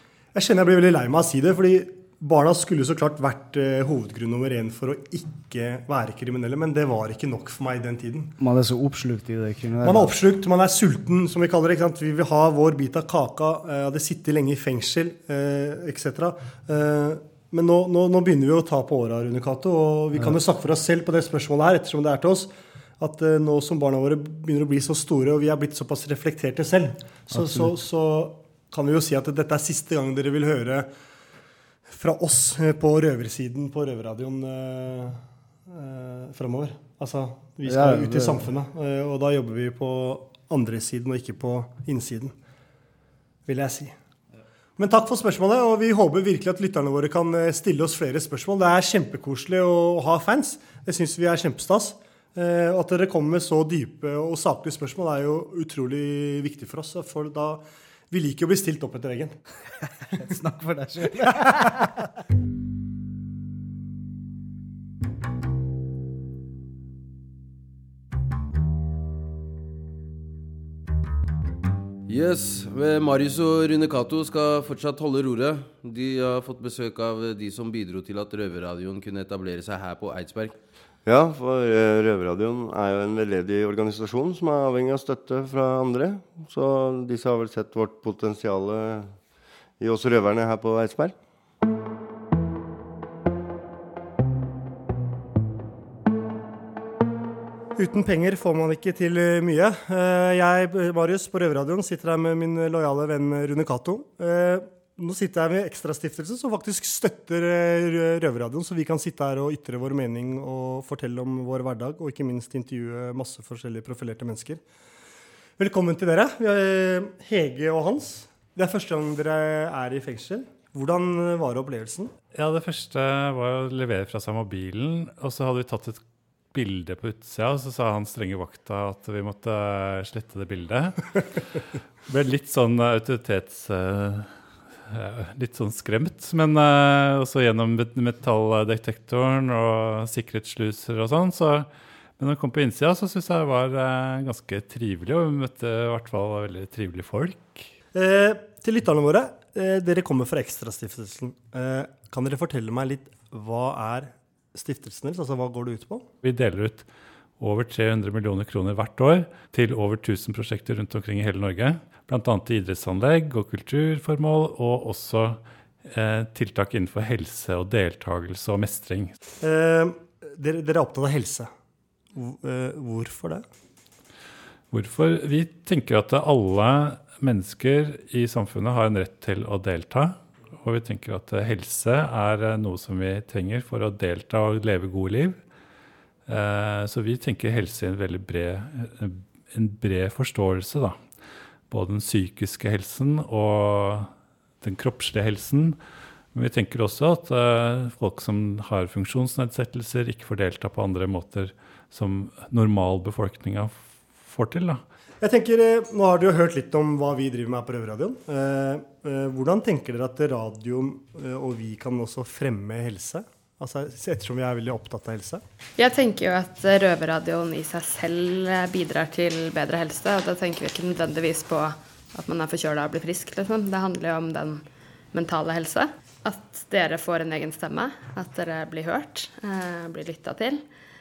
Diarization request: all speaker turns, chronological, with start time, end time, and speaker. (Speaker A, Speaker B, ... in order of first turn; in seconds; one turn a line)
Speaker A: 0.3-8.3
Speaker B: 8.4-10.2
Speaker A: 9.8-30.9
Speaker B: 27.3-27.8
Speaker A: 31.9-42.3
Speaker B: 37.6-38.5
Speaker A: 43.5-44.0
Speaker A: 44.8-59.4
Speaker B: 60.2-62.0
Speaker C: 72.1-80.6
Speaker D: 81.0-89.2
Speaker D: 89.8-91.2
Speaker A: 97.8-114.6
Speaker A: 115.6-122.1
Speaker E: 122.3-131.4
Speaker E: 132.1-147.7
Speaker A: 147.9-156.1
Speaker E: 156.2-156.9
Speaker E: 157.4-169.1
Speaker A: 169.4-171.5
Speaker A: 172.1-173.4
Speaker E: 174.7-185.4
Speaker E: 186.3-191.1
Speaker E: 191.7-195.8
Speaker E: 196.3-204.8
Speaker A: 205.2-215.4
Speaker F: 215.8-230.6